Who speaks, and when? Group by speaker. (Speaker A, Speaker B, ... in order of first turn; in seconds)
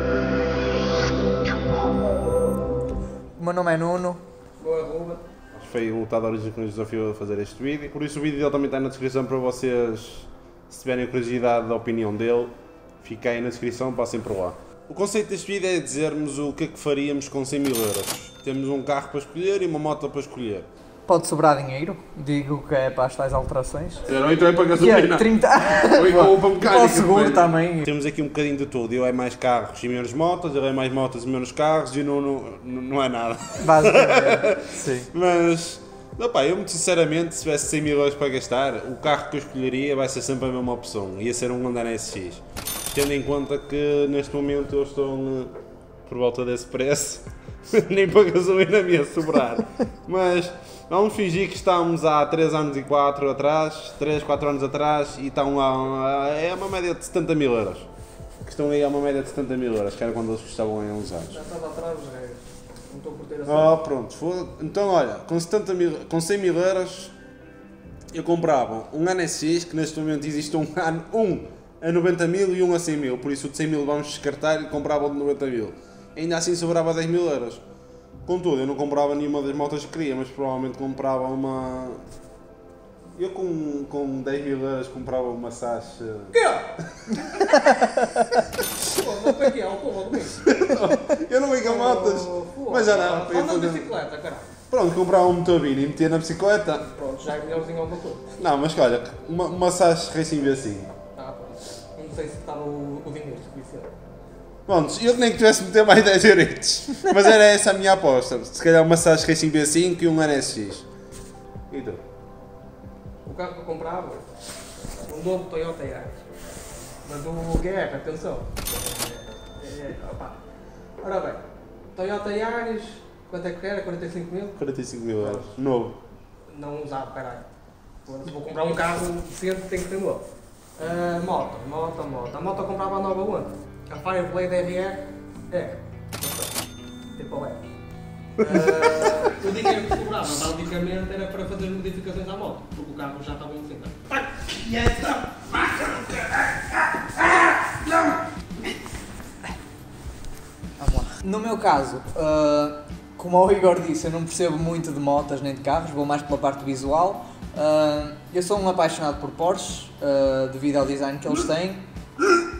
Speaker A: 3.4-4.2, 21.1-24.1, 24.8-27.9, 33.6-35.1, 87.7-88.2, 150.8-161.8
Speaker B: 4.6-5.2, 61.3-63.8, 86.3-86.7, 88.8-90.5, 91.6-94.5, 96.8-98.2, 101.1-103.9, 113.2-114.2, 115.0-116.2, 117.0-120.4, 121.0-121.4, 121.9-124.6, 125.2-125.5, 126.5-127.5, 128.0-130.2, 130.8-136.6, 137.2-137.6, 138.4-146.7
Speaker C: 5.5-20.7, 24.0-45.5, 46.1-57.9, 58.4-61.4, 63.5-67.1, 68.1-77.6, 78.2-82.0, 83.1-86.4, 86.9-87.2, 90.4-94.0, 94.7-96.9, 98.4-100.9, 104.7-110.9, 111.7-112.0, 124.6-126.0